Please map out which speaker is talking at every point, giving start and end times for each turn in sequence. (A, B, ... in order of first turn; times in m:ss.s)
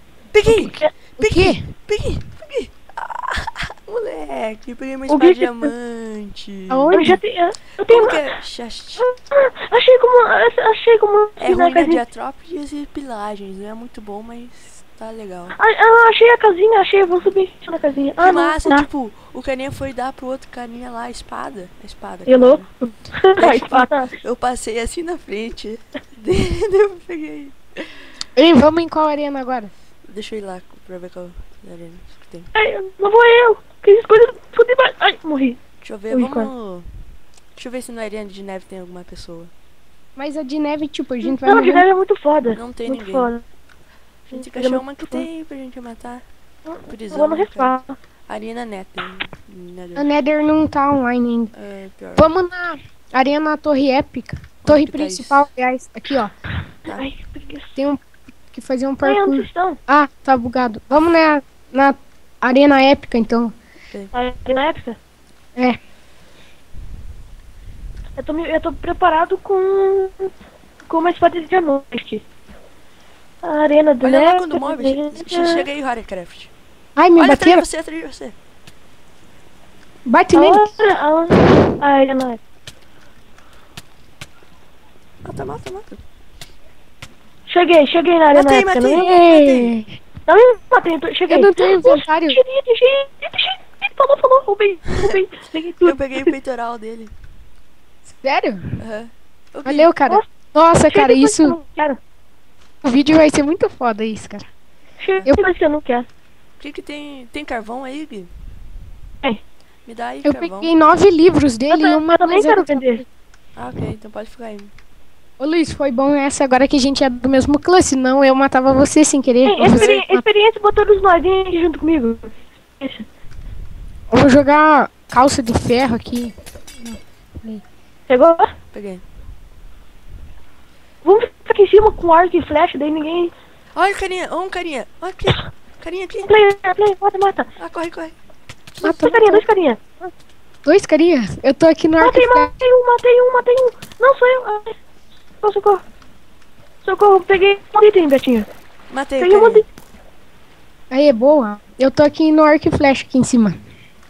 0:00.3-0:07.2 A
0:00.6-0:00.9 B
0:01.2-0:01.7 C
0:05.1-0:05.7 B
0:06.7-0:07.2 C
0:06.9-0:08.3 B
0:07.8-0:09.0 A
0:09.0-0:12.0 B
0:11.4-0:15.6 A
0:15.6-0:18.8 B
0:18.2-0:22.6 A
0:22.3-0:24.1 B
0:23.4-0:28.0 A
0:28.4-0:29.7 C
0:30.1-0:32.5 A
0:32.5-0:35.6 B
0:35.8-0:36.9 A
0:36.1-0:36.5 B
0:37.5-0:39.5 A
0:40.2-0:41.8 C
0:41.2-0:43.4 B
0:42.5-0:43.3 A
0:44.3-0:46.2 A
0:44.3-0:45.2 B
0:46.7-0:47.9 B
0:46.9-0:47.7 A
0:48.3-0:50.1 A
0:50.0-0:51.5 C
0:51.5-0:52.3 A
0:52.2-0:56.3 C
0:54.6-0:55.5 A
0:56.9-0:57.8 B
0:57.8-1:03.6 C
0:59.0-0:59.8 B
1:04.1-1:05.0 B
1:08.2-1:10.3 B
1:10.9-1:12.2 B
1:13.4-1:15.6 B
1:14.0-1:16.5 A
1:17.0-1:17.6 C
1:17.2-1:18.4 A
1:20.1-1:20.8 C
1:20.3-1:22.4 B
1:25.2-1:26.0 A
1:27.5-1:29.1 B
1:28.3-1:29.8 A
1:29.0-1:30.0 C
1:30.3-1:36.3 B
1:31.3-1:32.4 C
1:35.8-1:37.1 A
1:38.0-1:38.8 C
1:38.8-1:39.9 A
1:39.6-1:41.6 C
1:40.8-1:42.0 B
1:42.8-1:44.4 C
1:45.0-1:46.0 B
1:46.6-1:48.3 A
1:49.8-1:50.7 A
1:50.2-1:53.0 C
1:51.7-1:53.0 B
1:53.6-1:54.7 A
1:55.4-2:00.2 C
1:59.4-2:03.0 B
1:59.6-2:00.0 A
2:04.1-2:07.6 C
2:08.1-2:08.5 B
2:08.7-2:09.0 A
2:11.0-2:13.3 B
2:13.7-2:16.3 A
2:16.2-2:17.5 B
2:17.6-2:18.1 A
2:18.8-2:19.4 C
2:18.8-2:19.8 B
2:20.6-2:22.6 C
2:22.0-2:24.8 B
2:25.4-2:25.8 B
2:26.8-2:28.5 B
2:28.9-2:29.6 A
2:29.2-2:29.6 B
2:30.9-2:33.6 C